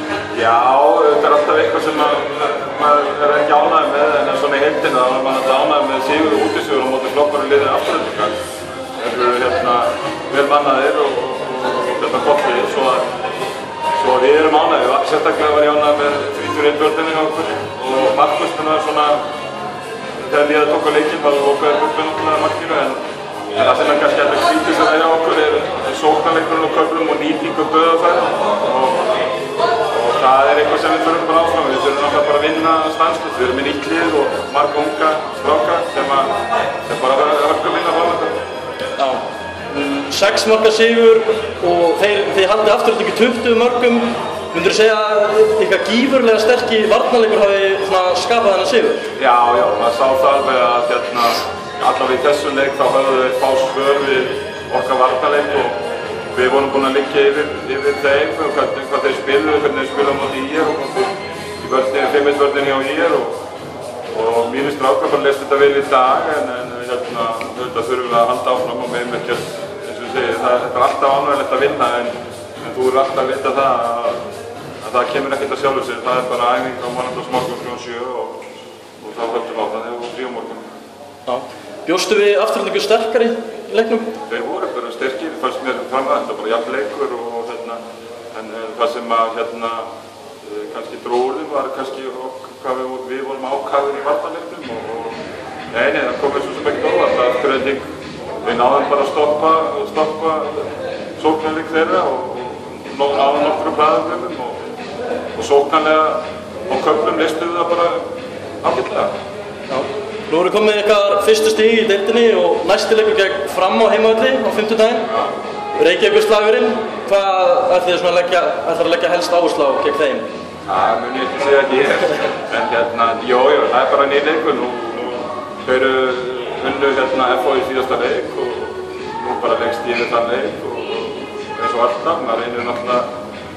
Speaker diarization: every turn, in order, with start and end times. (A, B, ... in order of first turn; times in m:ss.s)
0:00.3-0:08.4 A
0:09.0-0:13.1 A
0:14.0-0:19.2 A
0:20.2-0:23.0 A
0:23.6-0:29.1 A
0:29.9-0:36.3 A
0:36.9-0:38.4 A
0:39.0-0:49.1 B
0:49.2-0:55.8 A
0:56.3-1:03.4 A
1:04.1-1:14.2 A
1:14.8-1:18.4 A
1:19.0-1:20.6 A
1:21.3-1:24.1 B
1:24.3-1:27.8 A
1:28.3-1:29.9 A
1:30.4-1:35.2 A
1:35.7-1:37.8 A
1:38.4-1:44.6 A
1:45.4-1:48.0 A
1:48.6-1:49.1 A
1:49.7-1:55.1 B
1:55.8-2:00.3 B
2:00.7-2:13.1 A